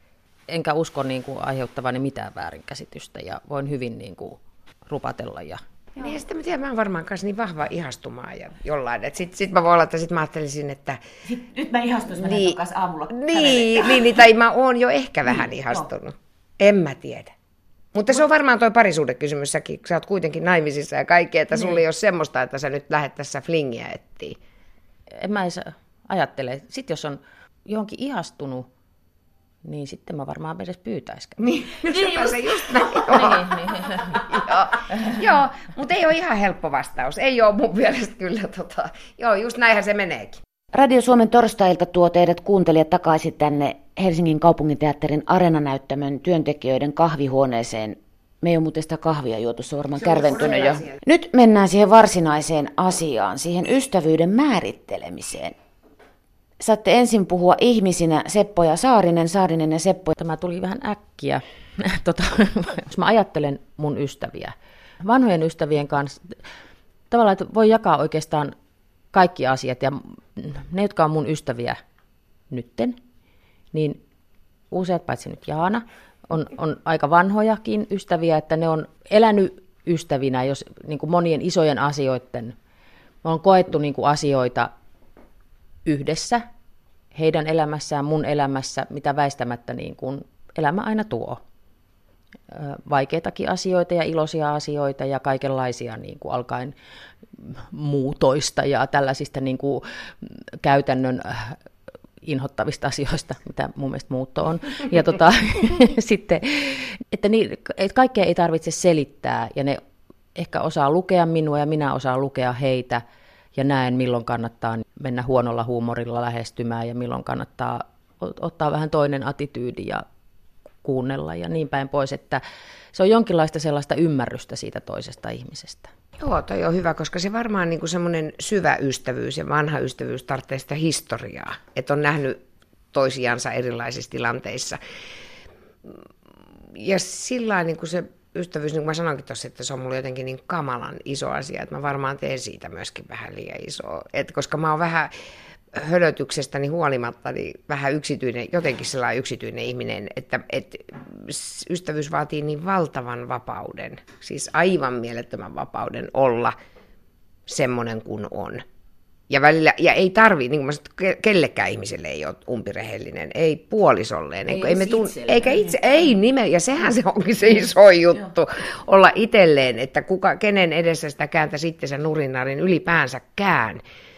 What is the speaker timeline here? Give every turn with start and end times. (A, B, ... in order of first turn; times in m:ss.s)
0:00.5-0:05.6 A
0:06.0-0:11.0 B
0:11.3-0:14.0 C
0:12.2-0:12.6 B
0:13.1-0:17.3 B
0:17.9-0:24.4 B
0:25.2-0:28.7 A
0:29.6-0:31.4 A
0:31.4-0:40.4 B
0:40.7-0:55.6 C
0:56.6-1:00.2 C
1:00.2-1:06.3 A
1:07.1-1:08.5 A
1:09.1-1:11.8 A
1:12.5-1:13.0 A
1:13.7-1:14.0 A
1:14.7-1:22.5 A
1:23.2-1:24.7 A
1:25.9-1:26.4 A
1:27.1-1:31.4 A
1:32.5-1:36.7 A
1:37.4-1:41.6 A
1:42.2-1:49.8 A
1:50.4-1:53.0 A
1:53.6-2:00.0 A
2:00.8-2:02.4 A
2:02.9-2:05.9 A
2:06.2-2:12.4 B
2:12.9-2:14.8 B
2:16.7-2:25.1 B
2:25.8-2:36.5 B
2:37.5-2:38.6 B
2:39.3-2:53.8 B